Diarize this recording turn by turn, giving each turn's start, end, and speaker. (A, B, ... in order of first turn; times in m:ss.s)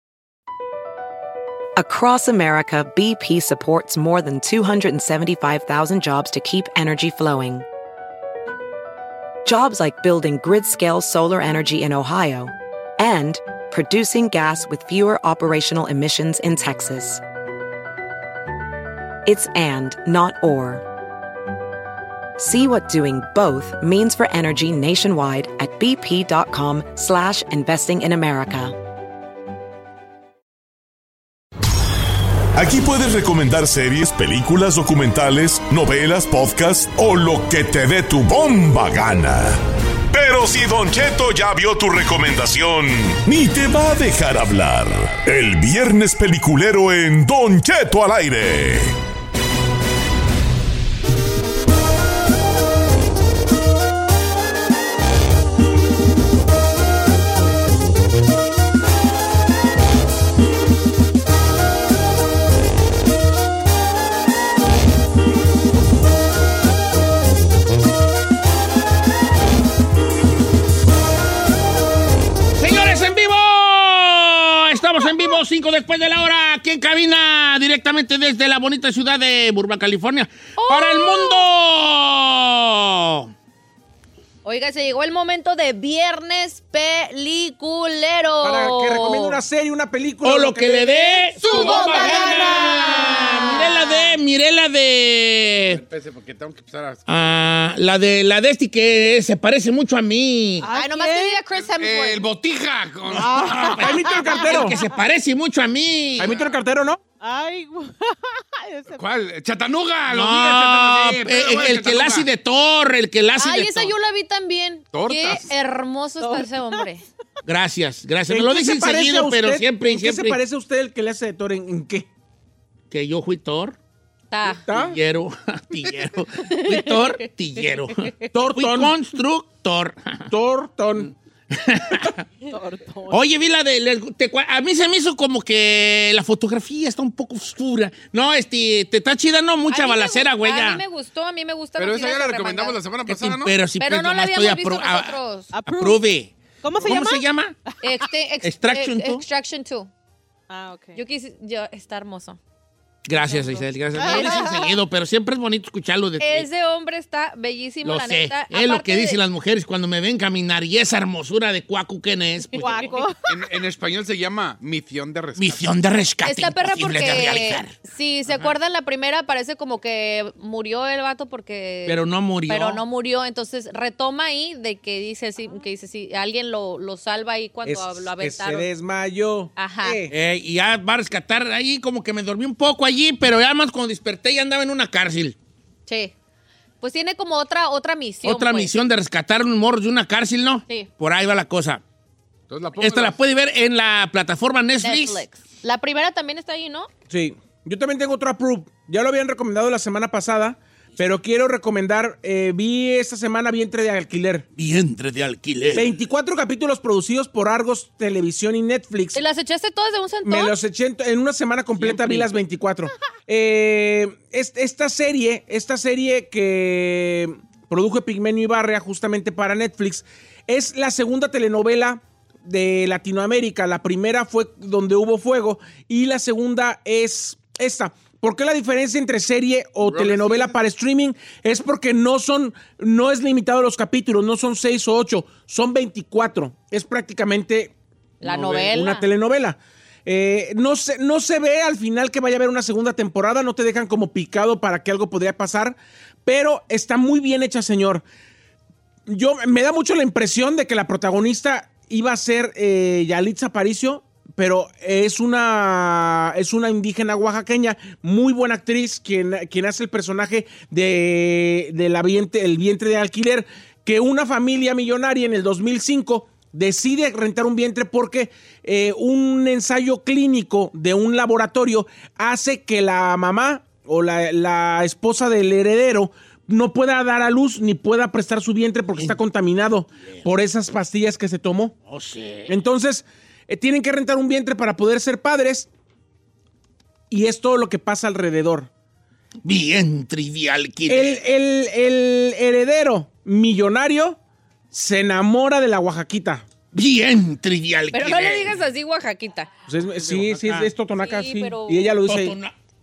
0:01.8-0:07.7 A
0:09.4-0:17.2 A
0:19.3-0:20.8 A
0:22.4-0:28.8 A
0:32.6-0:39.6 B
0:40.1-0:49.0 B
1:12.6-1:23.3 C
1:20.6-1:21.5 D
1:24.4-1:29.4 D
1:28.4-1:31.2 E
1:30.2-1:35.8 C
1:31.4-1:34.2 D
1:31.6-1:32.3 F
1:35.7-1:37.0 F
1:37.1-1:40.7 C
1:40.6-1:41.4 G
1:40.7-1:42.2 D
1:41.6-1:43.9 F
1:43.2-1:43.9 G
1:43.5-1:46.3 C
1:43.8-1:44.8 E
1:44.1-1:44.6 D
1:46.2-1:47.0 E
1:46.3-1:46.6 F
1:47.2-1:49.0 G
1:48.9-1:52.3 F
1:50.1-1:53.9 C
1:53.4-1:57.0 D
1:54.9-1:55.5 F
1:56.2-1:56.9 G
1:57.4-2:00.4 C
1:58.3-2:02.1 E
2:02.9-2:03.8 C
2:04.3-2:04.6 D
2:04.5-2:05.0 E
2:04.7-2:10.3 C
2:06.4-2:07.2 D
2:08.3-2:08.9 E
2:10.3-2:11.1 E
2:11.5-2:12.3 C
2:12.4-2:13.2 G
2:13.1-2:20.8 C
2:19.7-2:22.8 D
2:21.8-2:23.6 F
2:23.1-2:27.6 C
2:23.8-2:25.5 D
2:25.5-2:26.0 G
2:26.6-2:28.0 G
2:27.8-2:29.9 D
2:28.4-2:29.2 C
2:30.5-2:31.0 G
2:31.0-2:32.4 D
2:33.1-2:36.5 C
2:33.3-2:34.8 G
2:34.0-2:34.5 D
2:36.2-2:39.2 D
2:37.8-2:42.9 C
2:42.5-2:43.2 G
2:42.6-2:43.0 D
2:43.3-2:45.7 F
2:45.4-2:47.7 C
2:46.2-2:58.7 D
2:51.9-2:52.8 C
2:57.7-3:00.1 E
2:59.6-3:00.0 D
3:00.1-3:05.4 C
3:05.9-3:06.1 D
3:06.8-3:08.7 D
3:08.2-3:11.8 C
3:12.5-3:13.2 F
3:12.8-3:15.2 C
3:14.8-3:16.9 D
3:17.1-3:24.5 E
3:24.6-3:25.9 C
3:25.7-3:29.2 E
3:29.2-3:30.6 D
3:30.2-4:08.0 E
3:31.8-3:32.3 C
3:49.8-3:50.5 F
3:58.2-3:59.1 D
4:09.1-4:41.8 E
4:40.0-4:40.3 C
4:41.9-4:42.6 C
4:42.5-4:45.7 E
4:47.1-4:48.7 E
4:49.4-4:51.2 C
4:50.9-4:54.2 E
4:54.7-4:56.4 E
4:56.7-4:58.6 C
4:57.9-4:59.5 D
4:59.7-5:02.4 E
5:00.0-5:00.7 C
5:01.0-5:02.0 D
5:02.0-5:02.5 C